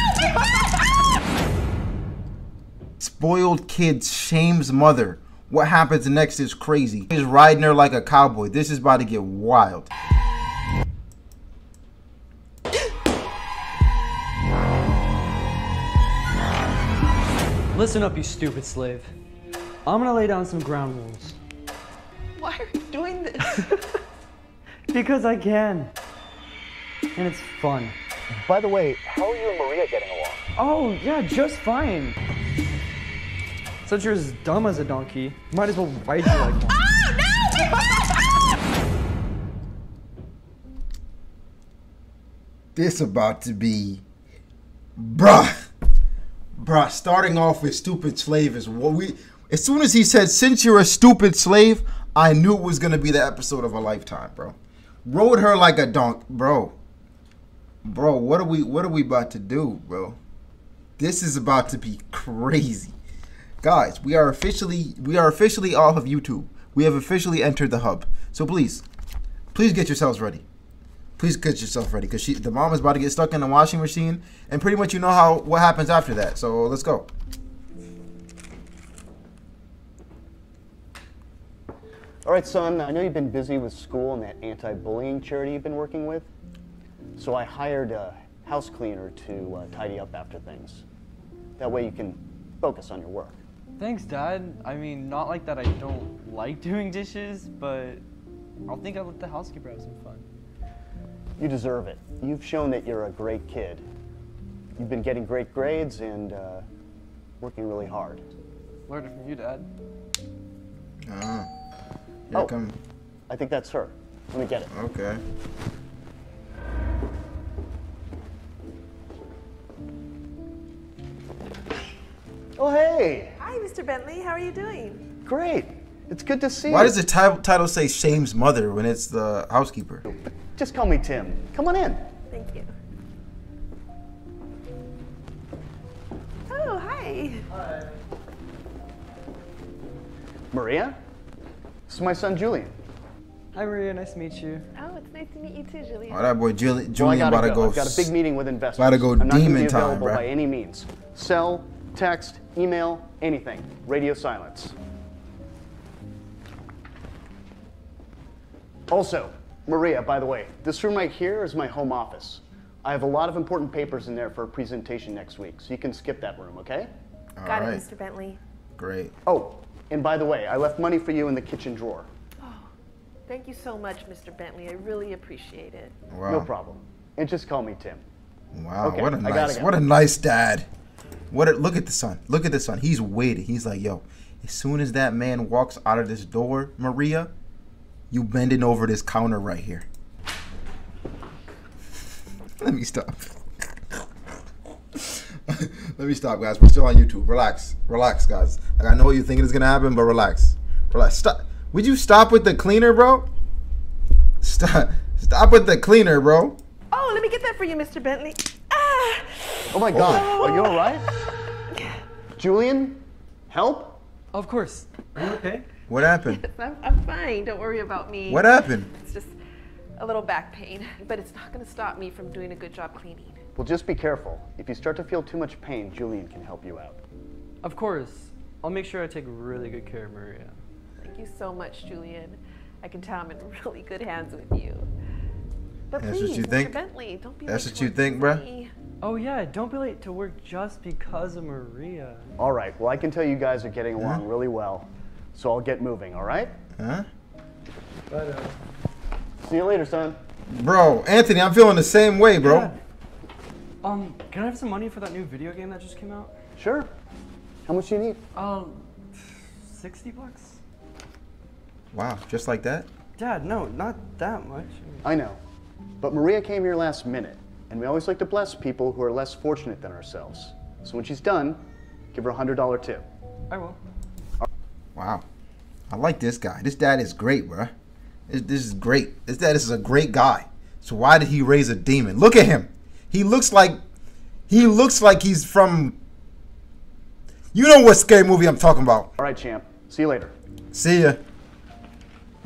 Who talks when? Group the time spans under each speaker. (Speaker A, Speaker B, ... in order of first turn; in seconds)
Speaker A: 3.0-9.9, 42.7-44.0, 45.0-45.7, 46.5-56.7, 57.8-60.2, 61.0-62.9, 63.6-68.8, 69.5-70.4, 71.2-77.1, 111.0-111.5, 112.3-112.7, 114.7-115.2, 126.7-130.0, 146.1-148.1, 148.8-150.2, 167.4-167.9, 168.8-169.1, 176.1-176.5, 178.5-180.7, 181.3-187.3, 188.1-189.8, 192.6-193.3, 194.9-203.3, 204.4-206.6, 209.9-210.3, 215.9-216.4, 218.3-218.9, 236.0-236.8, 237.4-238.4, 244.0-244.2, 246.8-247.1, 250.5-252.7, 261.9-262.9, 274.9-275.2, 275.9-277.7, 278.3-283.8, 284.5-286.0, 287.5-289.1, 290.7-291.2
Speaker B: 17.7-19.1, 19.8-21.4, 23.4-23.7, 24.9-25.9, 27.1-27.9, 30.5-32.2, 33.8-36.8, 93.8-98.0, 98.7-100.3, 108.9-109.7, 143.5-144.6, 214.3-215.7, 227.6-230.6, 239.0-242.2, 248.1-248.6, 252.4-252.8, 253.8-256.3, 258.3-260.6, 263.2-265.1, 273.5-273.8
Speaker C: 22.4-24.0, 123.4-125.0, 132.3-132.7, 136.5-137.4, 144.7-146.2, 167.5-168.4, 172.4-172.7, 173.3-175.9, 206.9-210.9, 211.7-212.0, 216.4-219.3, 220.0-223.4, 231.0-234.9, 235.9-238.7
Speaker D: 28.4-30.4, 82.2-86.3, 87.2-90.8, 91.6-93.3, 101.4-103.8, 104.8-106.6, 107.4-108.2, 113.3-114.7, 122.5-123.4, 125.2-127.0, 130.1-132.0, 140.5-140.9, 141.9-142.7, 146.9-154.8, 158.9-166.9, 169.2-172.1, 176.3-178.0, 178.8-179.7, 209.7-211.1, 212.4-214.0, 223.6-227.0, 242.4-246.5, 249.4-250.2, 256.6-256.9, 257.7-258.2, 265.0-265.4, 266.0-271.6, 272.1-273.0, 289.2-290.3